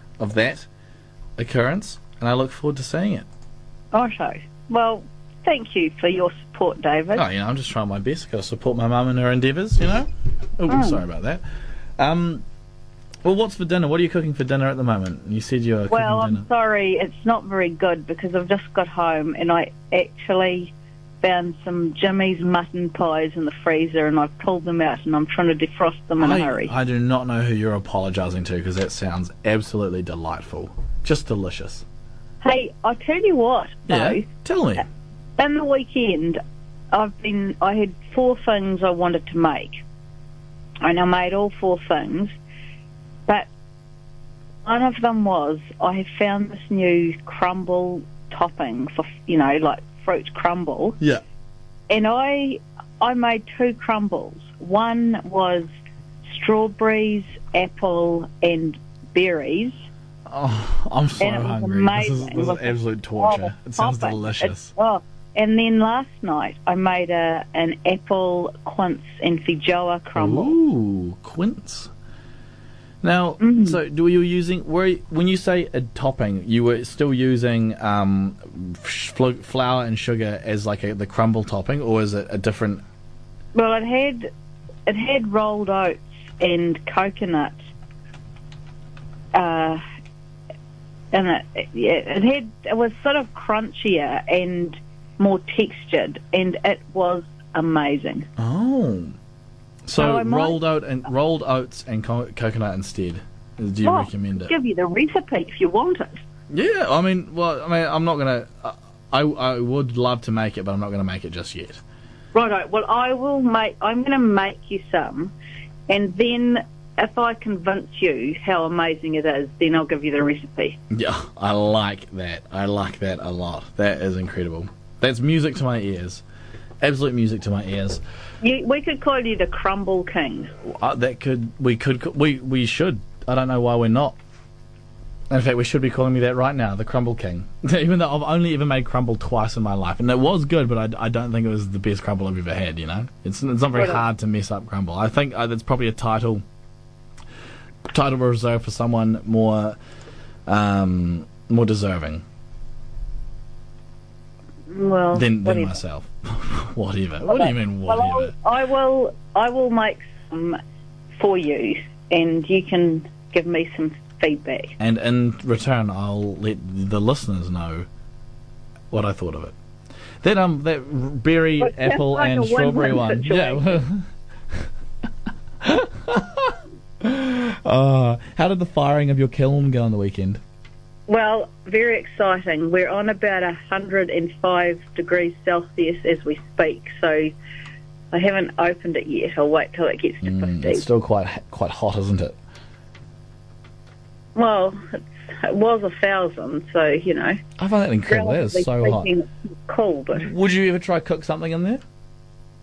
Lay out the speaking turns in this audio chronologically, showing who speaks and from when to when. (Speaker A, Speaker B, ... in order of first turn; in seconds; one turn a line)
Speaker A: 0.2-0.7
Speaker A: 1.4-3.3
Speaker B: 3.9-7.3
Speaker A: 7.2-10.1
Speaker A: 10.6-11.4
Speaker B: 10.7-11.0
Speaker A: 12.0-12.4
Speaker A: 13.2-16.5
Speaker B: 15.9-26.7
Speaker A: 26.2-31.9
Speaker B: 32.4-34.2
Speaker A: 33.9-34.9
Speaker B: 35.4-36.4
Speaker B: 36.9-39.7
Speaker B: 40.8-42.3
Speaker B: 44.6-51.0
Speaker B: 51.9-55.7
Speaker B: 56.2-59.7
Speaker A: 60.3-64.7
Speaker B: 61.2-70.6
Speaker A: 70.2-71.9
Speaker A: 73.0-82.8
Speaker B: 73.4-73.8
Speaker B: 83.5-84.3
Speaker B: 84.9-87.6
Speaker B: 89.3-89.8
Speaker B: 91.1-98.3
Speaker A: 98.4-99.2
Speaker A: 99.9-104.5
Speaker B: 100.0-100.6
Speaker B: 103.8-106.2
Speaker A: 106.5-111.8
Speaker B: 112.3-115.3
Speaker B: 115.9-120.8
Speaker A: 120.9-126.2
Speaker A: 126.8-128.0
Speaker B: 128.4-130.5
Speaker A: 130.7-134.2
Speaker A: 135.3-146.4
Speaker B: 143.8-144.0
Speaker A: 147.9-149.8
Speaker A: 150.5-152.2
Speaker B: 154.7-155.8
Speaker A: 155.1-158.3
Speaker B: 157.2-160.6
Speaker B: 161.2-164.7
Speaker A: 164.8-167.9
Speaker A: 168.9-169.6
Speaker A: 170.2-174.0
Speaker B: 171.6-173.8
Speaker A: 175.6-180.4
Speaker B: 181.1-187.3
Speaker B: 188.1-190.9
Speaker A: 190.2-192.4
Speaker B: 194.3-197.4
Speaker A: 197.6-199.1
Speaker B: 198.1-200.3
Speaker A: 200.1-201.8